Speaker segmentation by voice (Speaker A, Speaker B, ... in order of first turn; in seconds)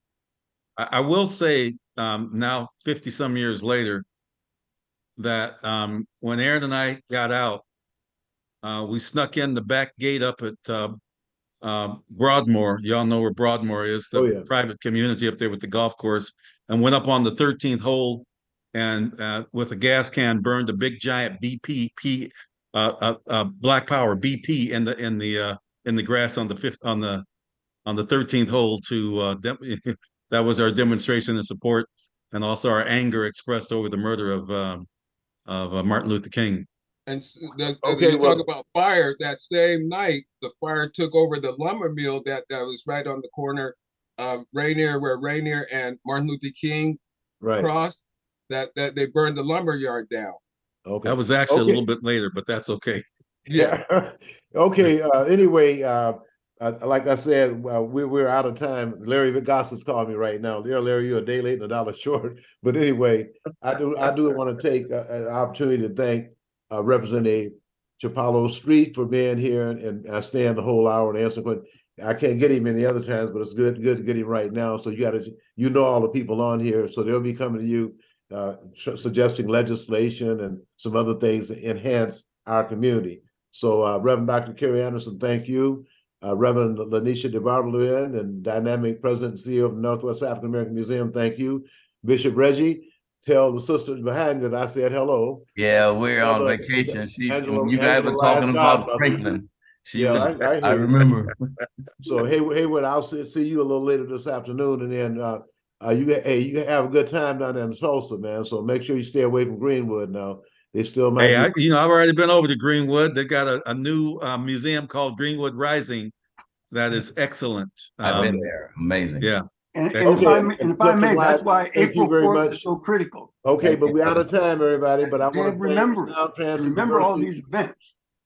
Speaker A: 0.8-4.0, 5.2-7.6, 8.6-10.9, 11.6-27.2, 27.9-34.9, 35.5-36.7, 51.0-53.0, 111.2-116.1, 116.7-118.5, 119.2-120.4
Speaker B: 14.1-14.5, 37.8-38.5, 47.4-47.7, 50.9-51.8, 53.5-95.5, 96.2-99.3, 100.0-101.0, 102.0-111.5, 120.0-122.6, 123.4-127.3
Speaker C: 37.1-47.0, 47.5-50.4, 53.5-53.8
Speaker D: 95.6-101.5, 118.0-119.3, 123.6-124.2
Speaker E: 119.7-123.4, 125.2-127.9